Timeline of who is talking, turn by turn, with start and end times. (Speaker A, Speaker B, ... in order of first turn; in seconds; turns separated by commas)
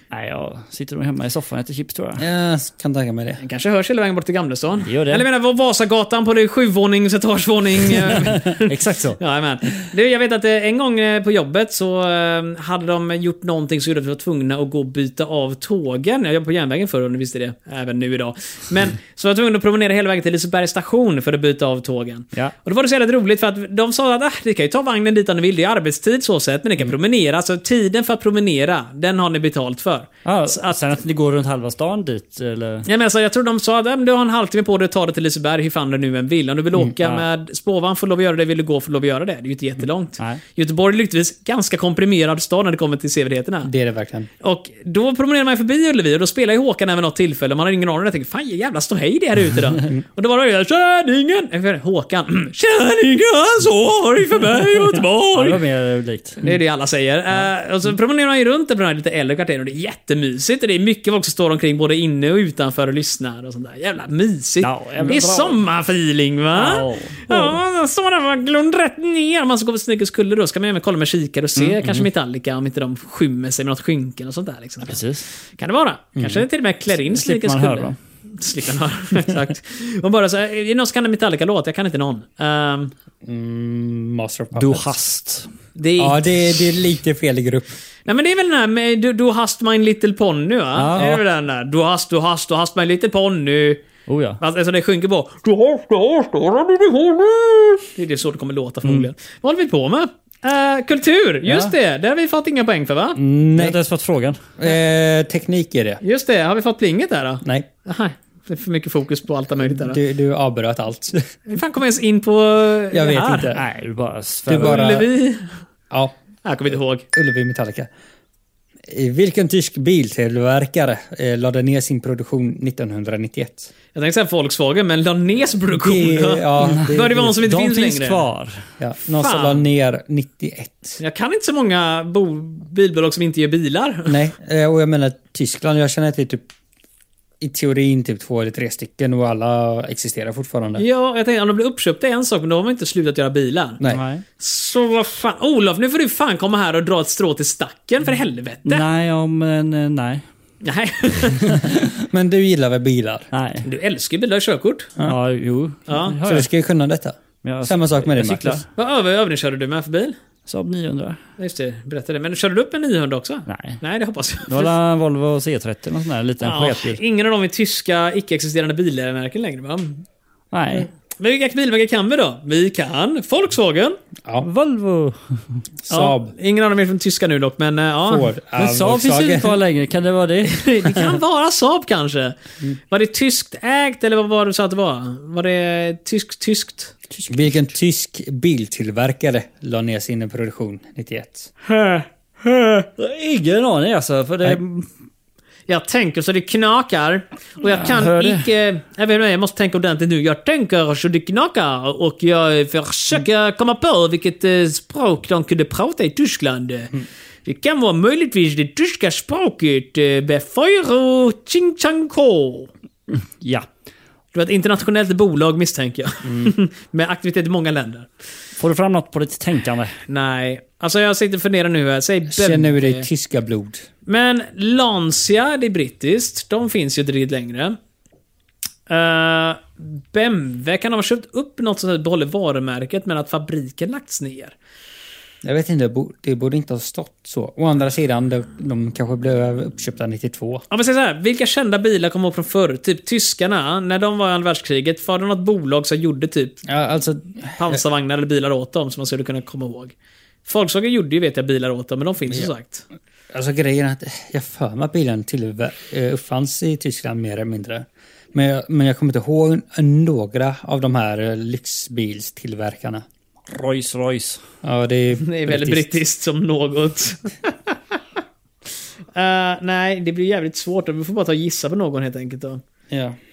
Speaker A: 0.1-2.2, Speaker B: 2.2-3.4, Speaker C: 3.4-30.8, Speaker A: 4.8-5.2, Speaker A: 8.1-9.2, Speaker A: 30.2-32.9, Speaker C: 32.9-43.7, Speaker B: 43.6-44.3, Speaker C: 44.4-55.6, Speaker A: 55.3-56.4, Speaker C: 56.4-75.0, Speaker A: 64.6-65.6, Speaker A: 66.5-67.6, Speaker A: 74.8-75.2, Speaker C: 75.6-82.9, Speaker B: 76.2-76.4, Speaker A: 77.0-78.0, Speaker B: 83.2-84.9, Speaker A: 84.5-85.5, Speaker C: 85.8-86.3, Speaker B: 86.0-87.8, Speaker C: 88.0-93.8, Speaker A: 90.8-91.2, Speaker A: 94.1-94.4, Speaker C: 94.4-103.2, Speaker A: 101.4-101.7, Speaker B: 103.2-103.8, Speaker A: 103.5-104.4, Speaker B: 104.6-106.0, Speaker C: 106.0-110.0, Speaker B: 109.6-111.3, Speaker C: 111.5-113.5, Speaker B: 112.9-113.6, Speaker A: 113.5-114.9, Speaker B: 114.5-115.1, Speaker C: 114.5-115.6, Speaker B: 115.9-116.1, Speaker C: 116.4-117.0, Speaker B: 117.1-117.9, Speaker B: 118.9-123.7, Speaker C: 123.9-128.2, Speaker B: 125.7-127.3, Speaker A: 126.6-128.6, Speaker B: 128.8-131.0, Speaker C: 129.1-129.6, Speaker C: 131.0-134.2, Speaker B: 134.1-136.4, Speaker B: 137.4-140.8, Speaker C: 140.8-143.8, Speaker A: 143.9-144.2, Speaker C: 144.4-148.8, Speaker A: 148.6-150.2, Speaker C: 150.6-151.6, Speaker A: 151.4-151.9, Speaker B: 152.0-153.3, Speaker A: 153.3-153.6, Speaker C: 153.6-154.9, Speaker A: 155.0-156.5, Speaker C: 155.9-156.1, Speaker B: 156.2-158.6, Speaker A: 157.4-158.6, Speaker C: 158.7-160.2, Speaker A: 160.5-161.2, Speaker C: 161.4-164.7, Speaker A: 163.5-163.8, Speaker A: 164.4-167.0, Speaker C: 166.4-170.0, Speaker A: 170.5-170.9, Speaker C: 171.2-174.0, Speaker A: 174.4-175.6, Speaker B: 175.8-176.3, Speaker C: 175.9-178.3, Speaker B: 178.1-179.6, Speaker A: 178.6-180.7, Speaker C: 180.4-182.4, Speaker C: 182.9-186.9, Speaker A: 187.1-187.5, Speaker B: 187.3-191.5, Speaker C: 191.6-192.9, Speaker A: 193.0-194.9, Speaker C: 195.7-206.9, Speaker A: 197.7-198.5, Speaker C: 207.4-212.7, Speaker A: 213.1-213.7, Speaker C: 214.3-218.1, Speaker B: 216.2-216.5, Speaker A: 218.6-219.9, Speaker C: 220.1-223.1, Speaker B: 222.3-223.8, Speaker C: 224.1-227.8, Speaker C: 228.9-234.5, Speaker B: 235.4-240.6, Speaker C: 240.7-246.6, Speaker B: 246.6-247.8, Speaker C: 247.6-249.9, Speaker C: 250.4-252.8, Speaker B: 253.3-263.0, Speaker A: 263.5-264.4, Speaker B: 264.6-266.0, Speaker C: 265.2-267.9, Speaker C: 269.1-272.6, Speaker B: 272.9-273.2